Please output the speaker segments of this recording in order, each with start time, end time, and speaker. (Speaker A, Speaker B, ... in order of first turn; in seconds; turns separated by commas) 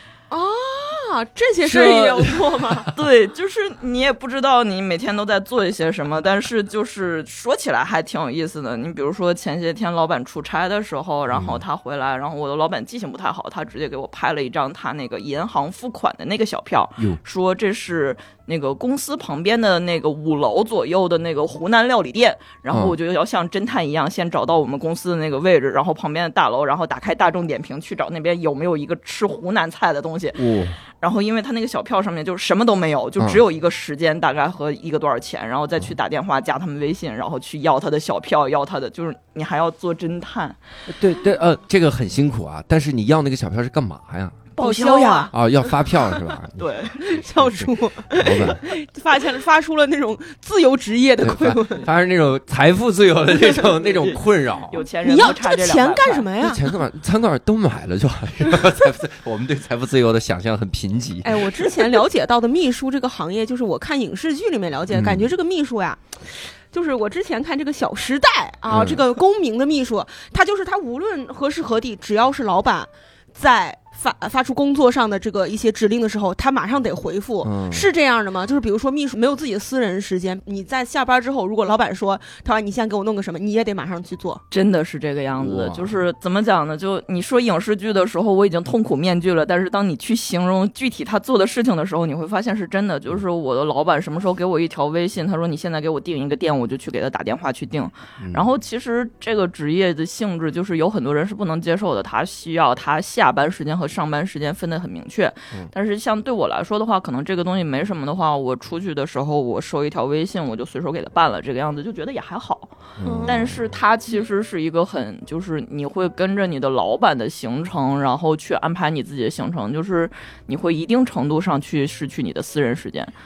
Speaker A: 0.3-2.9, Speaker B: 1.7-2.1, Speaker B: 2.9-30.4, Speaker C: 11.3-11.6, Speaker C: 30.3-30.8, Speaker B: 31.0-40.6, Speaker C: 40.9-44.4, Speaker B: 44.6-45.3, Speaker A: 44.6-45.3, Speaker C: 45.3-48.6, Speaker B: 46.6-47.0, Speaker A: 47.0-51.9, Speaker C: 51.2-54.8, Speaker B: 53.9-56.3, Speaker A: 55.0-56.6, Speaker C: 56.4-62.0, Speaker A: 61.2-84.4, Speaker C: 64.9-65.3, Speaker C: 68.7-69.0, Speaker C: 77.4-77.8, Speaker B: 84.5-112.7, Speaker C: 85.4-86.0, Speaker C: 113.0-113.6, Speaker A: 113.0-113.4, Speaker B: 113.2-123.1